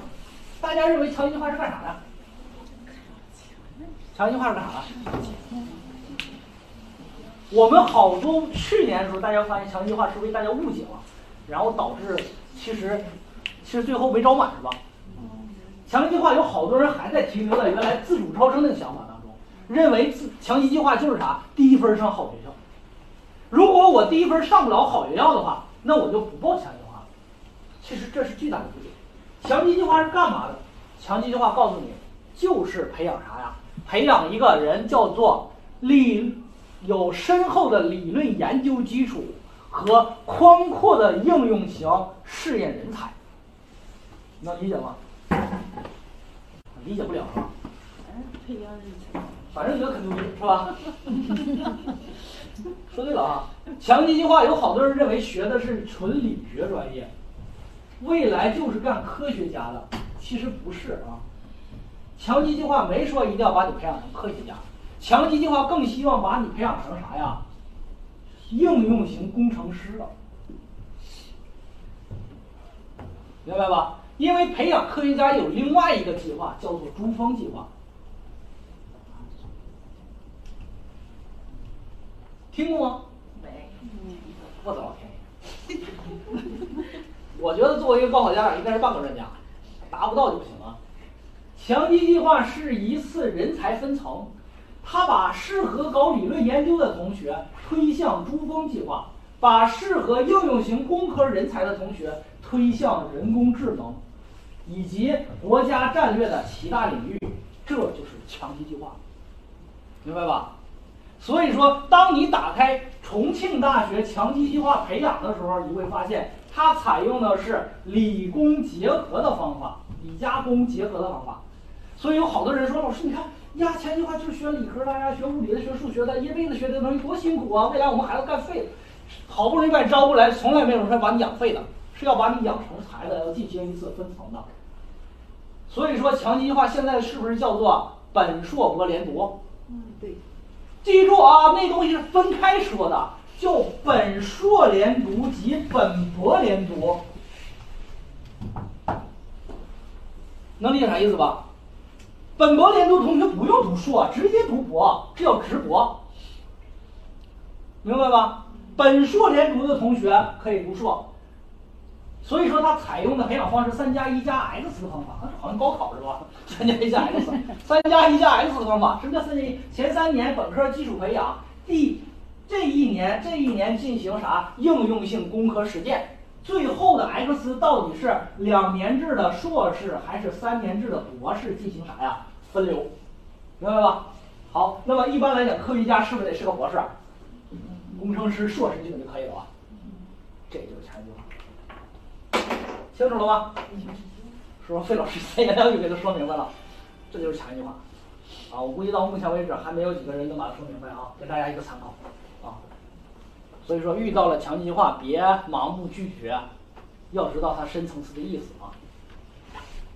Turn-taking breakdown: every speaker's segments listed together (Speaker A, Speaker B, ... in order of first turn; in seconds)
Speaker A: 0.6-2.0, 4.1-4.9, 7.5-13.1, 13.6-14.8, 15.9-22.6, 23.5-27.1, 27.8-43.1, 44.4-45.0, 46.7-47.5, 49.5-51.5, 52.9-57.1, 58.0-61.2, 62.1-67.4, 68.5-70.1, 73.4-77.7, 82.5-83.0, 84.6-85.2, 87.3-89.4, 89.9-90.8, 91.5-104.0, 104.6-109.0, 110.0-110.5, 111.2-121.4, 122.0-134.5, 135.7-139.3, 140.8-147.0, 150.6-151.4, 152.3-156.0, 157.8-161.1, 162.2-182.9, 183.6-186.9, 187.8-189.5, 190.5-191.2, 192.9-193.6, 194.6-196.5, 197.1-197.8, 198.5-202.6, 203.6-206.5, 207.1-208.7
Speaker B: 5.3-5.8, 15.1-15.7, 48.0-49.3, 83.3-84.3, 139.7-140.2